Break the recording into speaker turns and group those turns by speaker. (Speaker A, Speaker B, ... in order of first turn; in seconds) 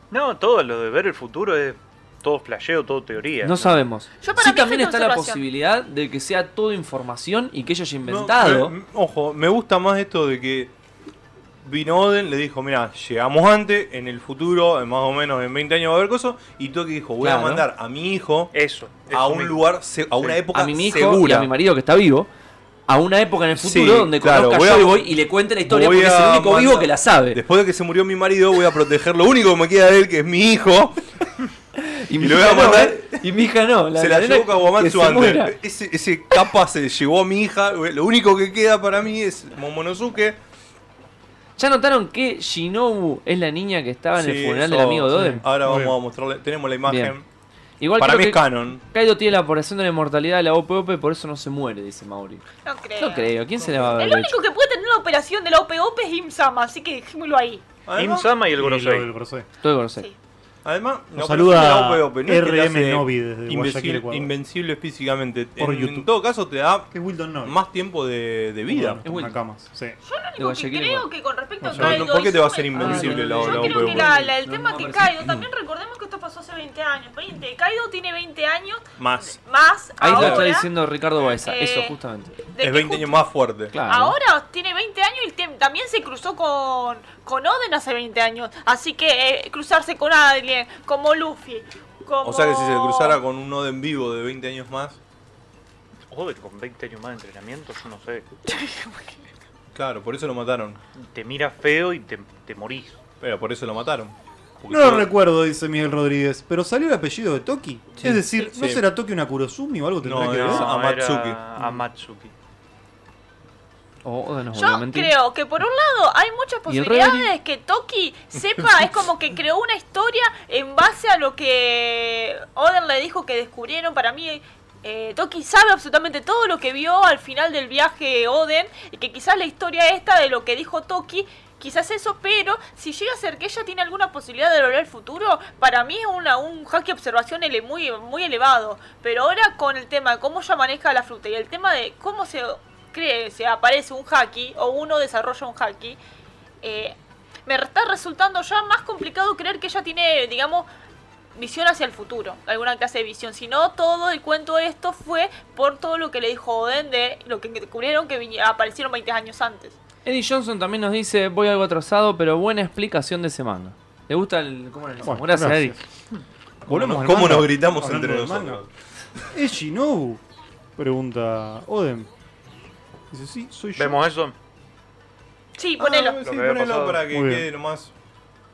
Speaker A: 0.1-3.7, 18.5-19.6, 57.9-59.1, 96.1-98.3, 101.0-103.0, 110.2-112.3, 173.7-174.3, 176.2-177.0
Speaker B: 3.4-8.7, 17.2-17.6, 20.5-22.3, 22.9-27.4, 31.8-35.5, 41.6-45.4, 46.9-47.1, 47.8-52.5, 53.0-54.4, 59.6-60.1, 69.0-69.4, 70.4-71.1, 72.7-75.3, 80.0-82.4, 83.7-84.2, 114.0-115.1, 116.7-117.3, 160.0-165.8
Speaker C: 4.2-5.4, 52.6-53.3, 54.0-57.6, 70.0-80.7, 81.3-82.0, 82.5-83.2, 83.9-93.2, 98.5-99.1, 114.5-146.0, 146.6-146.9, 147.5-150.7, 151.3-159.8, 175.6-176.2
Speaker D: 8.1-10.7, 11.6-18.5, 19.1-21.5, 23.5-25.0, 25.6-31.1, 32.2-33.2, 33.9-40.4, 44.1-47.2, 48.0-48.8, 57.9-58.3, 60.6-66.9, 67.4-69.0, 71.7-74.1, 79.0-79.4, 80.0-80.5, 82.6-83.7, 92.2-95.0, 99.7-100.8, 103.2-105.1, 108.0-108.8, 110.0-111.4, 166.7-168.7, 175.8-177.9
Speaker E: 45.1-46.0, 53.6-54.0, 58.6-59.5, 61.1-64.3, 65.6-66.1, 66.9-67.5, 68.7-70.0, 71.6-72.1, 104.7-110.7, 165.0-165.8, 166.7-168.6, 169.3-170.2, 170.8-172.1, 173.1-174.0, 177.1-177.5